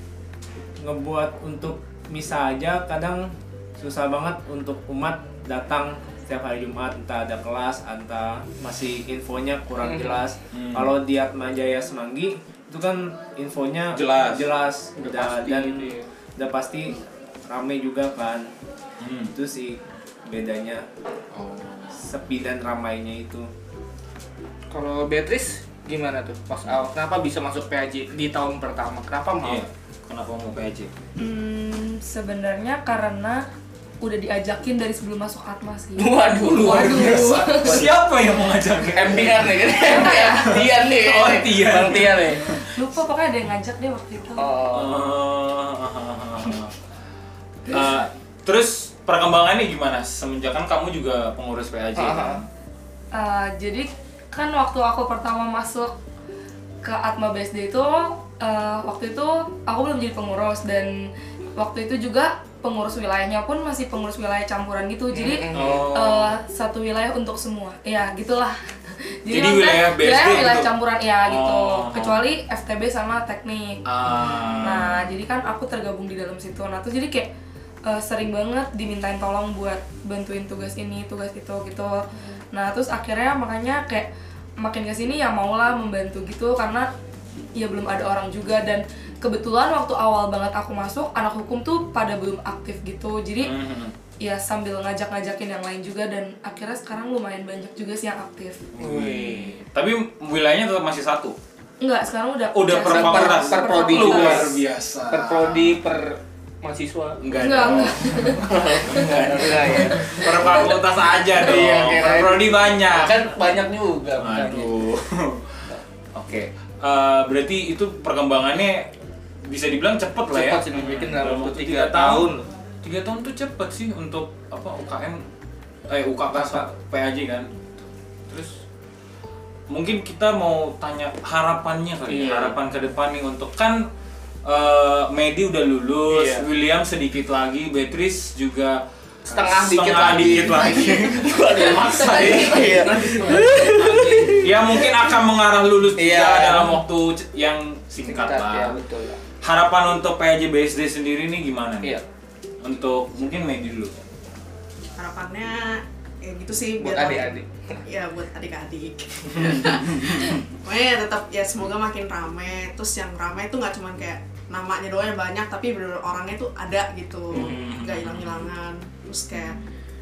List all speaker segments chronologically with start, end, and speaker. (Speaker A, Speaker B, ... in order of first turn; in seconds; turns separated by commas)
Speaker A: 0.8-18.5, Speaker B: 9.8-10.2, Speaker C: 10.5-10.9, Speaker C: 13.9-14.5, Speaker B: 15.0-16.1, Speaker C: 19.0-19.3, Speaker A: 19.3-20.8, Speaker C: 21.4-21.9, Speaker A: 21.9-23.5, Speaker B: 24.7-29.6, Speaker C: 29.4-30.9, Speaker D: 31.2-33.4, Speaker D: 34.0-37.8, Speaker B: 36.0-37.9, Speaker C: 36.3-42.8, Speaker B: 38.9-42.4, Speaker D: 39.7-40.5, Speaker D: 42.4-44.5, Speaker B: 44.4-45.1, Speaker C: 44.7-46.7, Speaker C: 47.6-52.5, Speaker B: 52.0-52.4, Speaker D: 53.1-55.9, Speaker D: 56.8-68.6, Speaker B: 65.1-65.9, Speaker C: 65.5-66.4, Speaker D: 69.2-73.8, Speaker C: 69.3-70.7, Speaker C: 71.2-72.2, Speaker C: 73.8-75.2, Speaker B: 74.1-74.7, Speaker D: 74.6-77.3, Speaker D: 77.8-84.1, Speaker D: 84.6-86.9, Speaker D: 87.5-93.5, Speaker C: 93.4-93.9, Speaker D: 94.2-98.6, Speaker C: 98.7-101.4, Speaker B: 98.8-99.6, Speaker D: 101.8-104.5, Speaker C: 102.5-105.8, Speaker B: 102.8-107.4, Speaker C: 107.2-113.3, Speaker D: 107.4-109.1, Speaker B: 108.4-110.7, Speaker B: 111.3-114.8, Speaker C: 114.2-118.9, Speaker C: 119.5-122.3, Speaker B: 120.3-122.5, Speaker C: 122.8-125.2, Speaker C: 125.9-127.6, Speaker B: 126.4-126.7, Speaker C: 128.3-128.6, Speaker C: 129.7-133.9, Speaker B: 132.1-132.6, Speaker C: 134.4-142.9, Speaker B: 136.1-136.5, Speaker B: 139.3-145.1, Speaker D: 142.2-142.8, Speaker A: 142.9-144.4, Speaker C: 144.4-148.8, Speaker B: 146.0-146.8, Speaker B: 148.0-149.2, Speaker C: 149.4-152.0, Speaker C: 152.6-153.9, Speaker E: 155.0-169.6, Speaker B: 156.8-157.8, Speaker C: 159.3-160.4, Speaker B: 167.3-167.8, Speaker C: 167.3-168.5